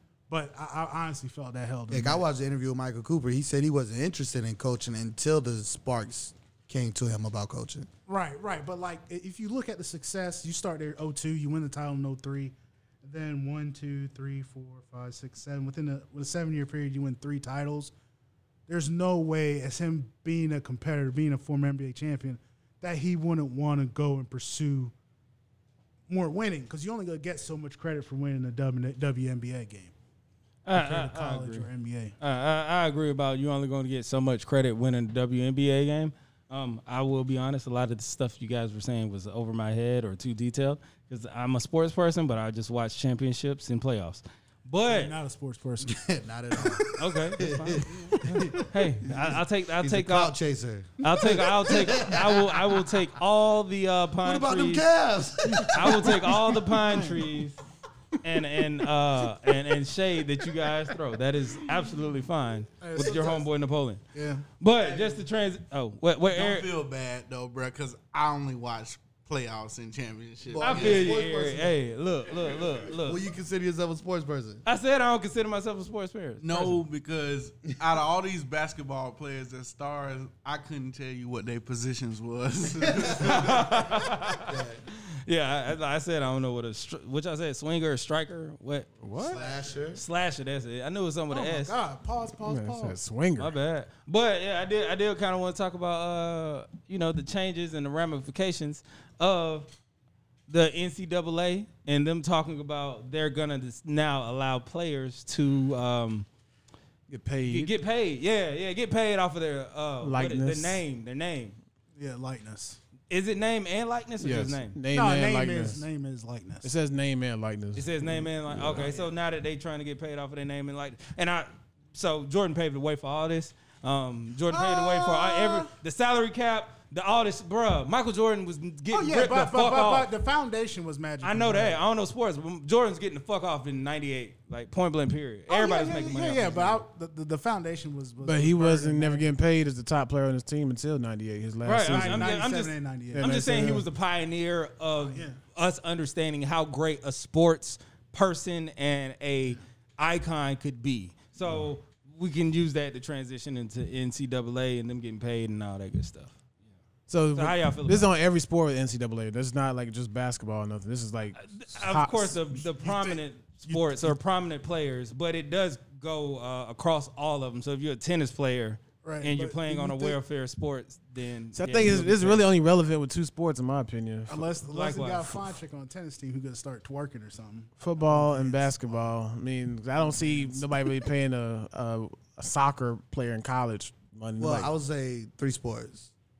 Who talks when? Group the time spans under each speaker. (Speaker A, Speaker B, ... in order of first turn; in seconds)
Speaker A: 0.3-2.2, 8.1-17.9, 18.7-24.9, 26.1-29.9, 30.7-32.1, 44.9-45.9, 62.8-63.4, 64.1-64.5, 91.3-93.0, 111.9-112.8, 114.9-116.7, 124.5-125.7, 128.9-131.8, 135.5-139.2, 141.8-143.7, 145.0-145.4, 162.7-164.1, 169.0-170.2, 174.3-179.0, 180.1-180.8
Speaker B: 1.9-7.9, 45.8-52.7, 54.2-56.4, 70.5-71.8, 73.0-74.6, 83.0-83.7, 84.3-84.8, 89.3-90.0, 184.4-186.1
Speaker C: 30.6-31.7, 32.2-45.1, 47.0-50.3, 51.0-54.9, 55.7-57.6, 58.2-64.0, 64.6-66.7, 70.6-73.2, 74.7-76.8, 83.2-89.3, 89.9-91.7, 93.4-99.7, 100.5-106.3, 107.5-111.6, 113.1-114.8, 117.7-130.1, 131.2-136.8, 141.6-156.3, 157.3-158.1, 161.4-172.4, 174.7-175.4
Speaker D: 64.8-65.1, 66.3-71.1, 76.4-83.8
Speaker E: 89.0-89.4, 92.4-93.5, 107.1-107.7, 110.0-110.8, 114.2-115.8, 116.6-119.0, 138.2-142.3, 143.1-143.8, 157.1-162.6, 171.5-174.5, 177.8-184.7